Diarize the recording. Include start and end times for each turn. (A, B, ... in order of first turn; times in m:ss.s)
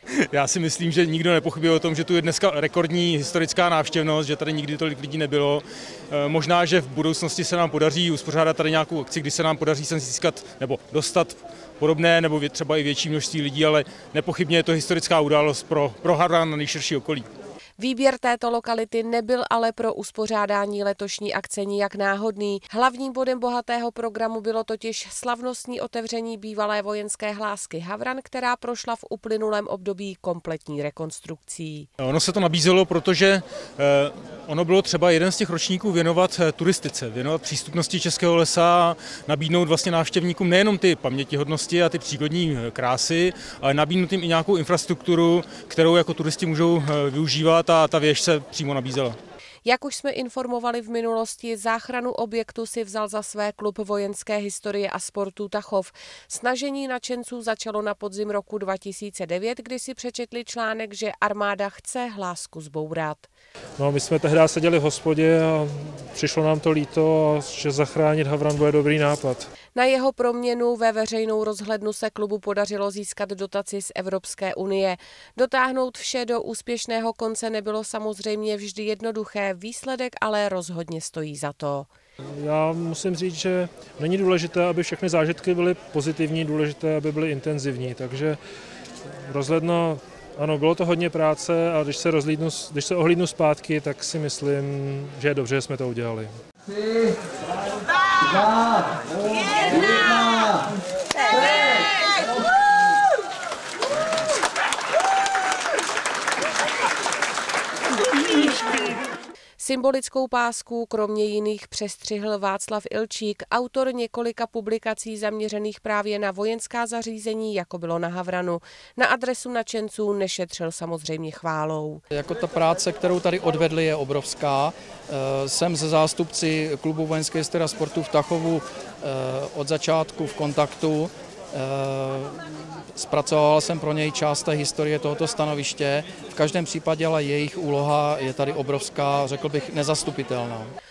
0:00.3-0:17.3 A
0:17.8-0:31.9 B
0:32.0-0:49.2 A
0:49.6-1:03.3 B
1:03.8-1:09.5 C
1:09.7-1:21.9 B
1:22.4-1:28.4 C
1:29.3-1:36.3 C
1:39.8-1:40.2 C
1:49.6-2:02.0 B
2:02.1-2:20.7 D